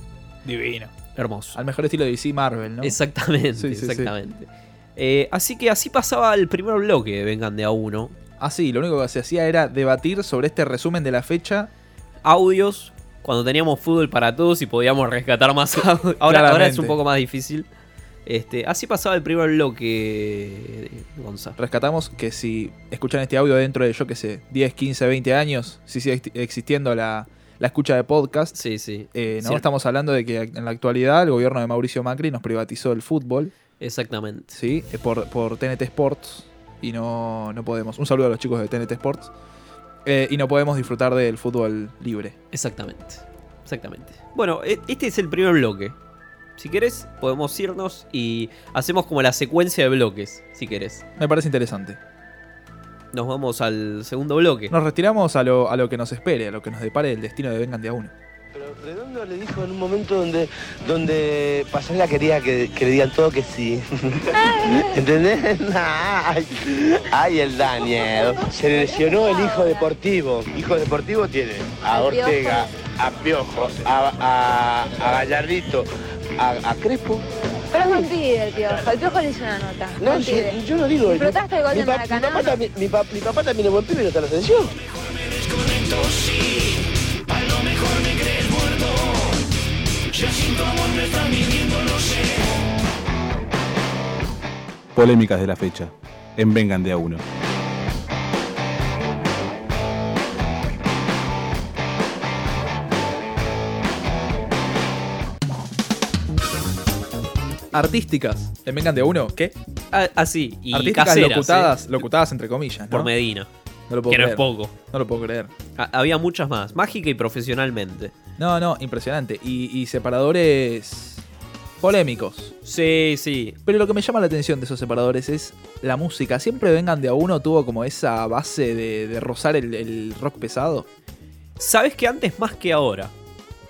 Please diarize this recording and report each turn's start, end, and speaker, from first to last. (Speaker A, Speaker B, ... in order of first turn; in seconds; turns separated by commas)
Speaker A: 0.4-0.9, Speaker B: 1.1-1.6, Speaker A: 1.5-3.0, Speaker B: 2.8-8.1, Speaker A: 3.6-4.1, Speaker A: 8.4-11.7, Speaker B: 12.2-17.7, Speaker A: 16.2-17.0, Speaker B: 18.2-21.6, Speaker A: 21.6-28.5, Speaker B: 28.5-29.6, Speaker A: 29.1-33.5, Speaker B: 33.8-34.5, Speaker A: 34.5-39.3, Speaker A: 40.0-42.4, Speaker B: 42.5-46.0, Speaker B: 46.6-51.0, Speaker A: 51.2-52.0, Speaker B: 53.1-54.7, Speaker A: 54.7-58.1, Speaker C: 58.5-75.9, Speaker D: 64.4-65.0, Speaker D: 69.2-69.9, Speaker D: 71.8-72.7, Speaker C: 76.4-77.2, Speaker D: 77.7-82.6, Speaker C: 80.0-84.7, Speaker E: 94.9-97.2, Speaker A: 107.7-109.5, Speaker B: 109.9-112.0, Speaker A: 110.7-113.1, Speaker B: 112.9-113.5, Speaker A: 113.9-115.5, Speaker B: 114.1-114.7, Speaker B: 115.8-118.1, Speaker A: 118.4-121.2, Speaker A: 121.8-122.5, Speaker B: 122.6-123.6, Speaker A: 123.7-130.9, Speaker B: 131.6-133.1